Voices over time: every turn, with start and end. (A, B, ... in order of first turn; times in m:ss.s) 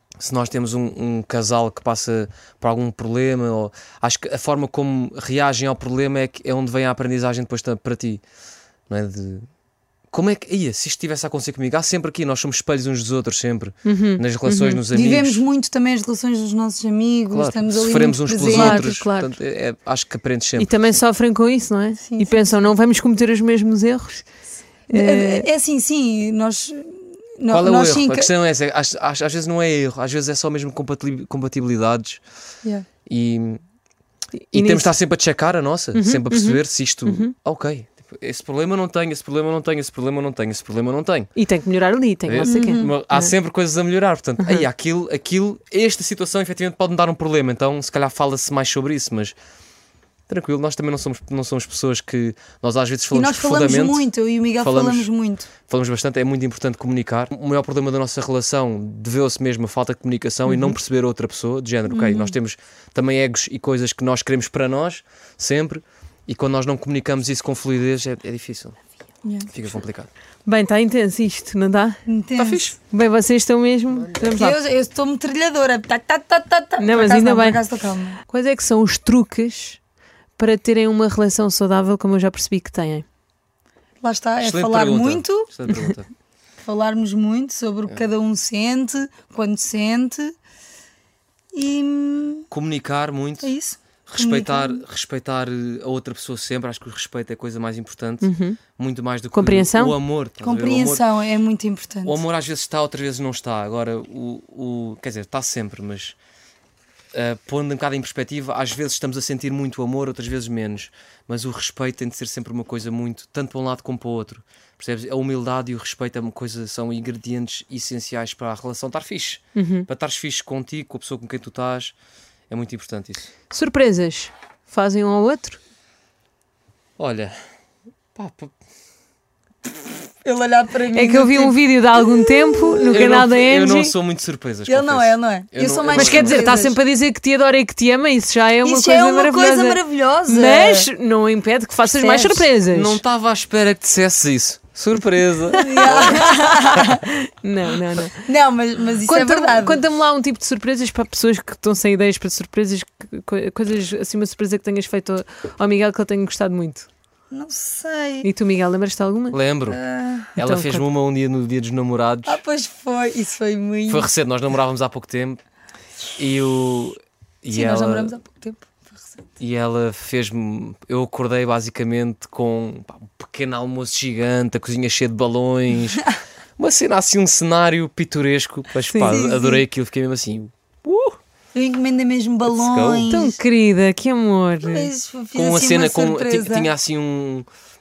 0:00.2-0:08.2 A
0:08.9-0:09.5 A
0:10.1-0:15.4 A
0:13.9-0:14.8 B
0:14.9-0:18.9 C
0:17.3-0:20.7 A
0:18.4-0:19.4 B
0:20.6-0:24.3 B
0:22.0-0:22.6 C
0:24.9-0:28.3 C
0:24.9-0:25.5 B
0:27.5-0:32.2 A
0:33.1-0:33.6 A
0:34.4-0:34.9 B
0:34.5-0:41.3 A
0:36.0-0:37.3 B
0:41.4-0:43.3 B
0:42.3-0:49.4 A
0:42.4-0:42.9 C
0:44.4-0:44.7 B
0:50.3-0:55.1 A
0:53.1-0:55.5 C
0:55.6-1:08.8 A
1:00.5-1:00.8 B
1:01.9-1:02.3 C
1:09.2-1:09.5 C
1:09.5-1:10.1 A
1:10.5-1:12.0 B
1:12.1-1:12.7 C
1:12.4-1:12.8 A
1:12.8-1:14.6 B
1:14.0-1:14.2 A
1:14.3-1:18.2 C
1:16.8-1:17.6 B
1:18.3-1:19.8 B
1:20.4-1:23.0 B
1:24.0-1:25.5 C
1:24.4-1:26.1 A
1:26.6-1:30.3 C
1:31.5-1:32.5 C
1:32.5-1:33.5 A
1:33.4-1:34.8 C
1:34.1-1:41.0 A
1:38.2-1:38.6 B
1:39.3-1:40.0 B
1:40.4-1:42.2 C
1:42.0-1:46.2 A
1:47.1-2:02.0 A
1:59.6-1:59.9 B
2:02.5-2:03.3 A
2:03.5-2:05.6 B
2:07.0-2:07.4 A
2:08.2-2:08.5 A
2:10.2-2:12.9 C
2:10.9-2:13.9 B
2:12.9-2:16.6 A
2:14.7-2:16.8 C
2:15.9-2:23.0 B
2:18.6-2:20.9 C
2:21.9-2:22.4 C
2:22.7-2:26.3 A
2:25.5-2:28.3 B
2:25.6-2:27.1 C
2:28.2-2:29.8 C
2:29.1-2:36.9 B
2:37.3-2:38.3 C
2:38.2-2:39.4 B
2:39.3-2:39.8 A
2:39.7-2:40.3 C
2:40.4-2:42.4 A
2:40.4-2:40.8 B
2:42.3-2:44.1 C
2:43.9-2:45.4 A
2:46.2-2:48.2 A
2:47.5-2:49.2 C
2:49.4-2:56.0 A
2:56.6-3:01.2 A
2:58.9-2:59.2 B
2:59.0-2:59.6 C
3:01.5-3:03.4 C
3:02.5-3:03.2 A
3:03.1-3:04.9 B
3:04.7-3:06.7 C
3:05.4-3:07.5 A